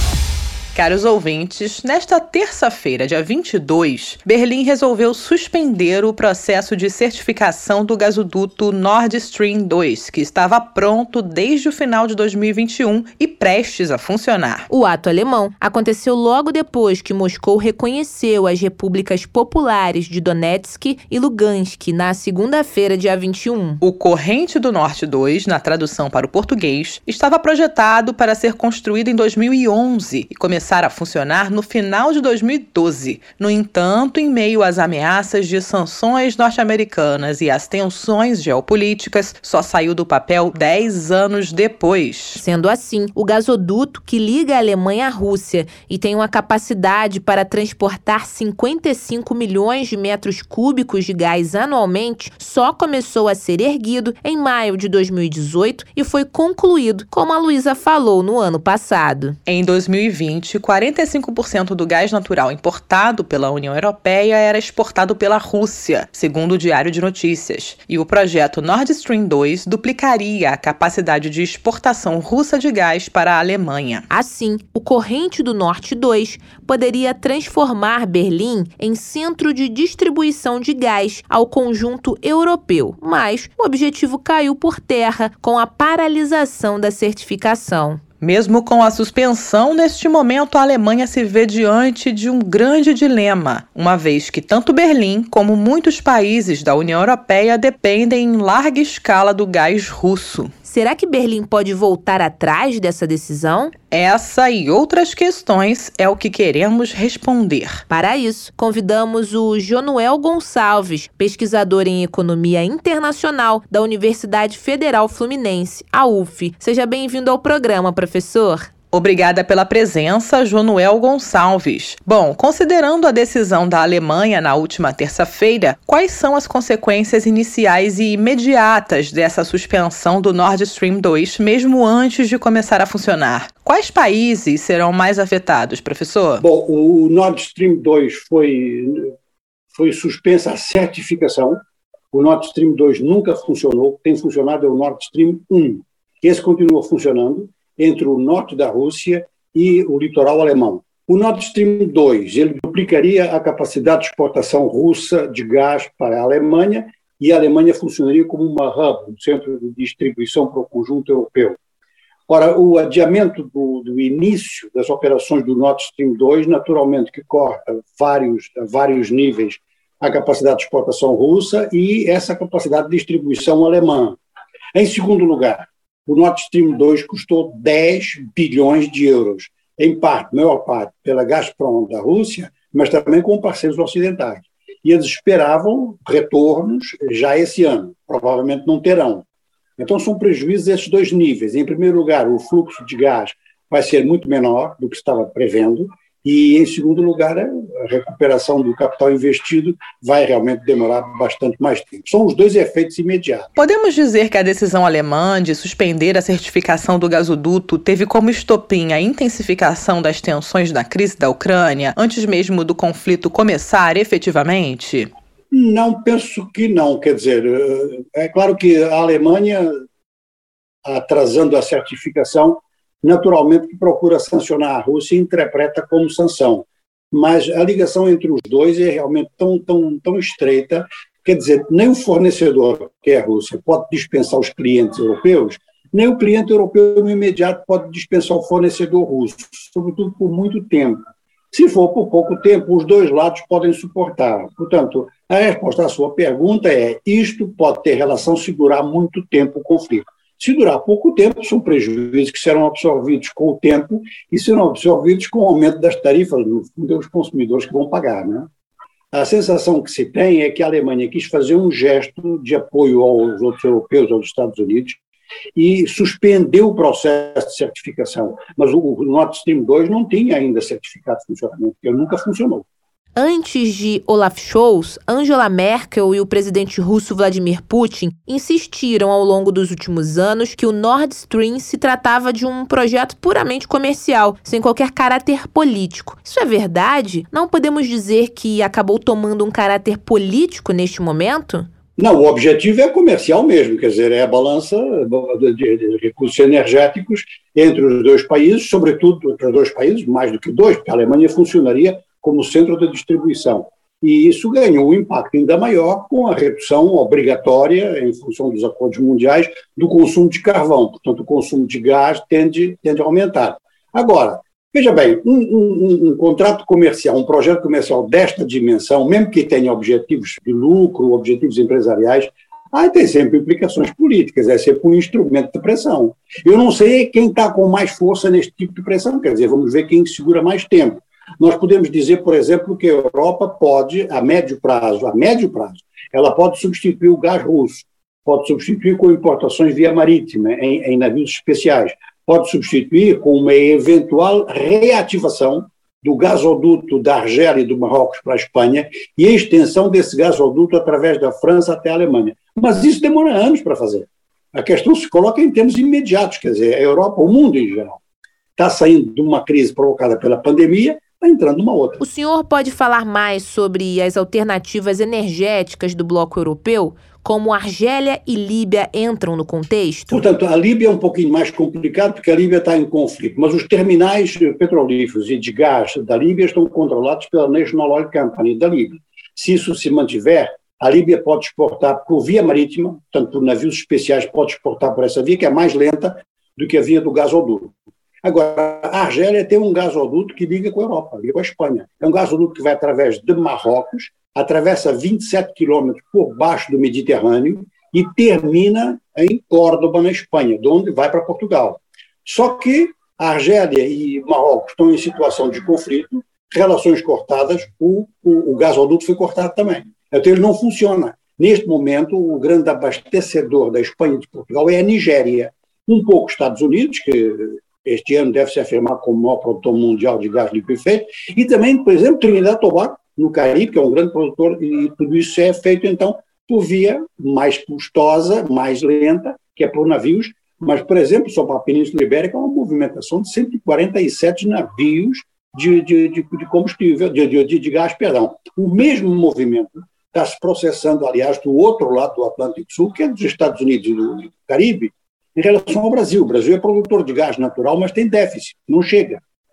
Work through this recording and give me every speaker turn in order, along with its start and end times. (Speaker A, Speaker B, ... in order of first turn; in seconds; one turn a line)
Speaker A: 0.7-14.7
Speaker B: 14.7-23.8
Speaker A: 23.8-42.4
Speaker B: 42.4-59.4
Speaker A: 59.5-74.1
Speaker B: 74.1-88.0
Speaker A: 88.2-100.5
Speaker B: 100.6-103.7
Speaker A: 103.9-107.8
Speaker B: 107.9-118.7
Speaker A: 118.9-136.4
Speaker C: 136.4-139.1
Speaker C: 139.7-141.6
Speaker C: 142.1-161.6
Speaker C: 162.3-174.2
Speaker C: 174.7-189.2
Speaker C: 189.8-203.5
Speaker A: 203.6-215.1
Speaker C: 215.5-219.7
Speaker C: 220.8-258.5
Speaker C: 259.1-265.0
Speaker C: 265.6-272.6
Speaker B: 273.1-291.7
Speaker C: 292.0-358.0
Speaker C: 358.6-362.0
Speaker B: 362.0-370.2
Speaker C: 370.1-449.2